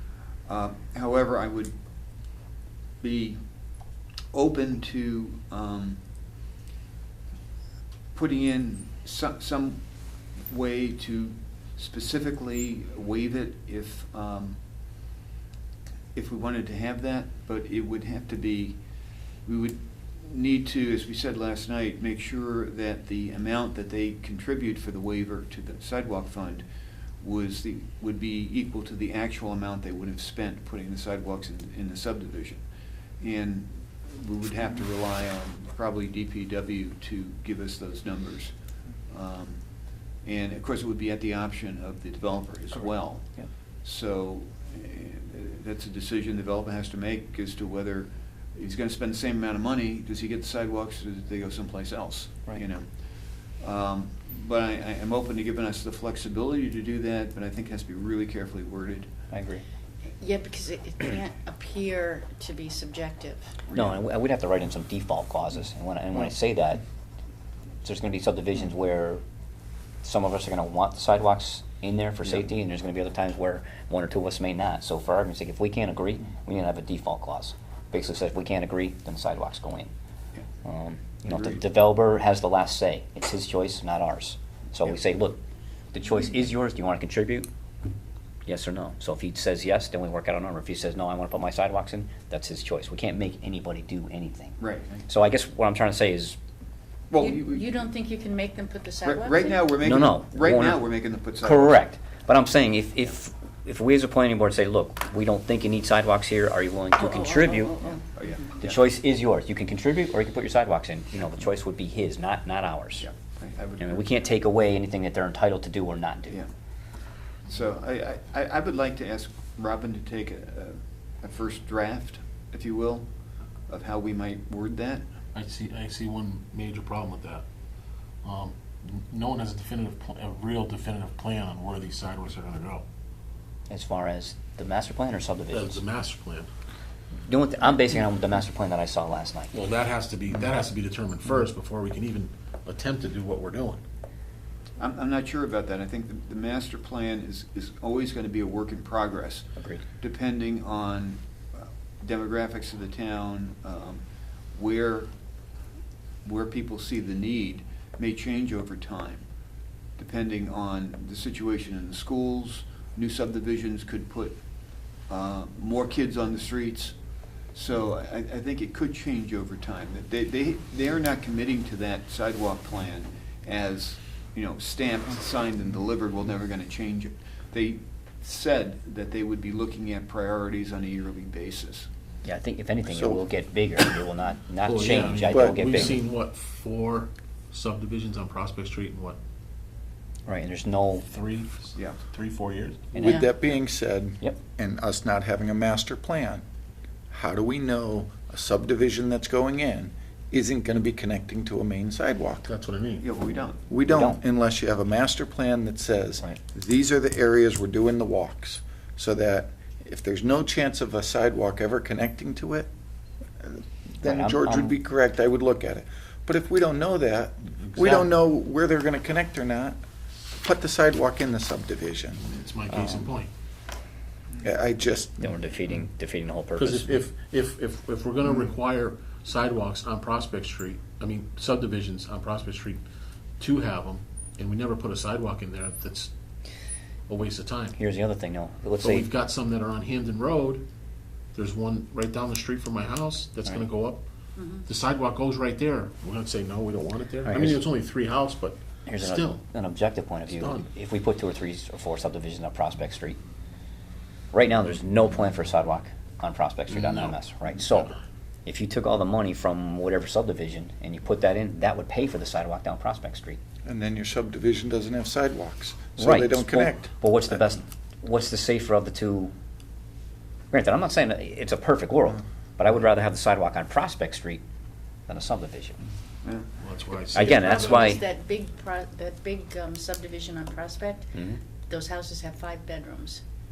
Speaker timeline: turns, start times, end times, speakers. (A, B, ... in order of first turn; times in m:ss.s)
0:00.4-0:01.7 A
0:03.0-0:03.4 A
0:04.3-0:06.0 A
0:08.1-0:09.8 A
0:10.4-0:14.6 A
0:16.1-0:18.8 A
0:19.4-0:26.6 A
0:27.2-0:32.6 A
0:33.2-0:38.5 A
0:39.1-0:39.6 A
0:40.2-0:43.3 A
0:43.8-0:52.8 A
0:53.6-0:59.1 A
0:59.3-0:59.6 B
1:00.2-1:03.6 C
1:03.7-1:04.0 A
1:03.7-1:06.8 B
1:07.8-1:09.2 B
1:10.0-1:19.9 B
1:20.6-1:25.4 B
1:21.3-1:21.6 A
1:25.9-1:27.5 B
1:28.4-1:36.4 B
1:34.6-1:35.0 A
1:37.1-1:37.7 A
1:37.2-1:39.7 C
1:39.0-1:41.8 A
1:39.8-1:40.8 B
1:41.4-1:48.0 B
1:47.0-1:48.5 C
1:48.1-1:48.8 A
1:48.6-1:53.0 B
1:53.0-1:54.0 A
1:53.8-1:56.4 B
1:57.4-2:03.1 A
2:03.7-2:05.0 A
2:05.3-2:07.4 D
2:08.2-2:12.8 D
2:13.7-2:15.8 B
2:15.5-2:16.5 D
2:17.3-2:19.5 B
2:19.5-2:23.8 D
2:24.8-2:29.5 A
2:29.6-2:29.8 B
2:30.0-2:34.0 A
2:34.5-2:35.1 A
2:36.2-2:39.3 A
2:40.0-2:44.4 A
2:45.1-2:47.0 A
2:47.5-3:01.9 A
3:02.2-3:06.0 B
3:02.9-3:03.2 E
3:04.6-3:09.2 D
3:05.3-3:05.9 E
3:10.2-3:11.0 B
3:11.0-3:13.0 D
3:12.9-3:13.2 B
3:13.0-3:16.4 E
3:17.1-3:22.5 E
3:22.4-3:23.1 D
3:23.0-3:23.7 A
3:23.7-3:32.7 E
3:23.9-3:24.2 B
3:33.4-3:39.8 E
3:34.0-3:34.7 B
3:37.7-3:38.1 D
3:40.4-3:42.2 E
3:42.2-3:43.3 D
3:44.4-3:45.4 E
3:45.2-3:46.9 B
3:46.6-3:52.8 D
3:53.4-3:56.1 D
3:57.1-3:57.8 D
3:57.8-3:59.1 B
3:58.8-4:00.6 D
4:01.3-4:04.0 D
4:04.4-4:04.6 C
4:04.6-4:09.4 D
4:08.8-4:13.2 B
4:10.3-4:10.7 D
4:14.3-4:17.9 B
4:16.7-4:17.2 D
4:18.4-4:23.4 B
4:23.6-4:26.9 E
4:26.0-4:29.3 B
4:30.5-4:34.4 B
4:35.1-4:35.8 B
4:36.6-4:38.0 D
4:37.1-4:38.0 B
4:37.3-4:41.1 C
4:41.1-4:41.4 B
4:41.7-4:43.2 C